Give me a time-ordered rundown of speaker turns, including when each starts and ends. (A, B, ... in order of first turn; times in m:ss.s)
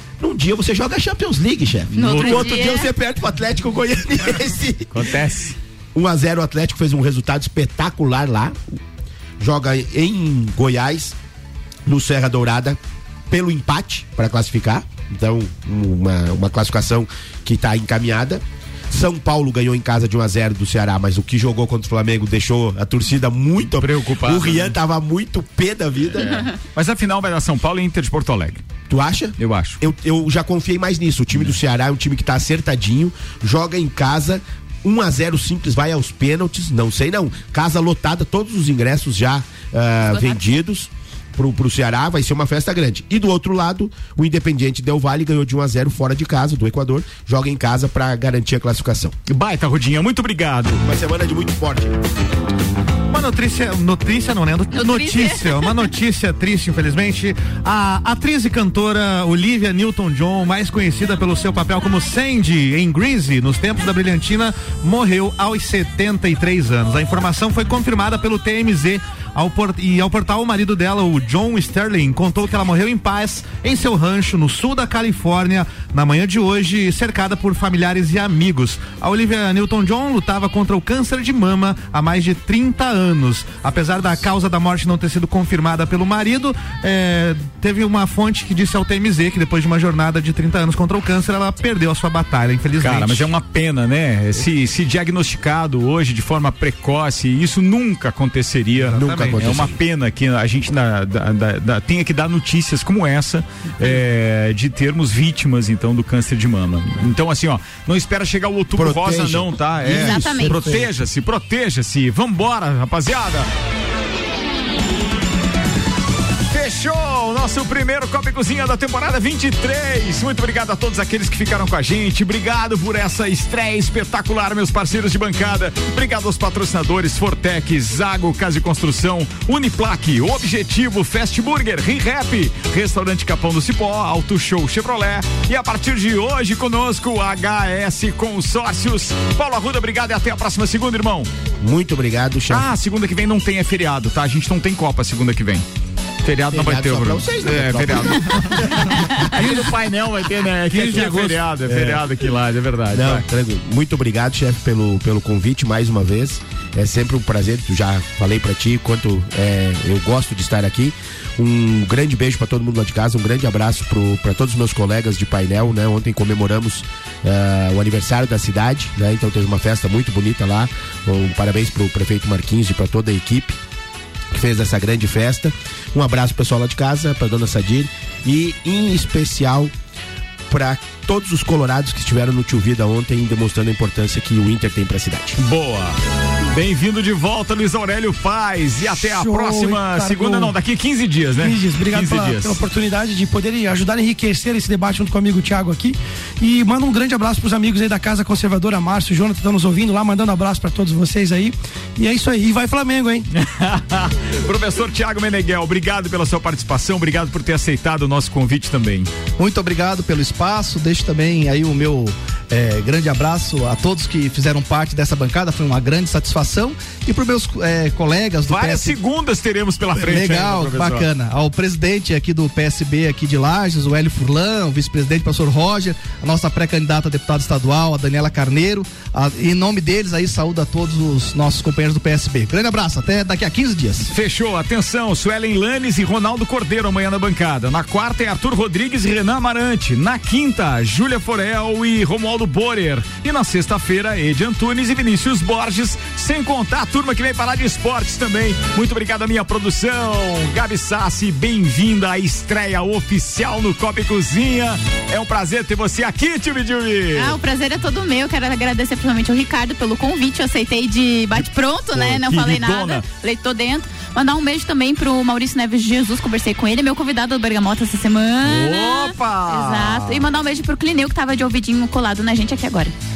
0:00.2-0:04.9 A
0:01.9-0:02.7 B
0:01.9-0:02.9 C
0:04.9-0:05.6 B
0:05.9-0:08.6 A
0:09.4-0:11.2 A
0:11.8-0:12.8 A
0:13.3-0:26.5 A
0:23.6-0:24.7 B
0:26.7-0:28.6 B
0:28.9-0:49.1 A
0:29.4-0:29.8 B
0:40.1-0:40.4 C
0:49.3-0:50.8 B
0:50.8-0:52.0 A
0:53.1-1:33.3 D
0:54.7-0:55.7 C
1:32.8-1:53.5 B
1:38.8-1:39.6 D
1:38.9-1:39.8 A
1:48.8-1:50.9 A
1:49.9-1:50.8 C
1:56.5-2:21.3 B
2:21.6-2:22.7 A
2:22.5-2:25.6 B
2:26.2-2:33.2 B
2:26.5-2:29.6 A
2:30.7-2:31.4 D
2:30.8-2:32.0 A
2:32.9-2:53.6 A
2:54.3-2:59.7 A
3:00.5-3:05.4 A
3:05.4-3:06.0 B
3:06.5-3:12.6 B
3:09.0-3:10.5 E
3:11.4-3:23.3 E
3:23.3-3:29.1 B
3:29.4-3:39.0 F
3:38.5-3:41.1 B
3:40.0-3:54.1 F
3:54.1-4:17.4 B
4:17.1-4:32.9 C
4:21.9-4:23.0 B
4:28.4-4:30.2 B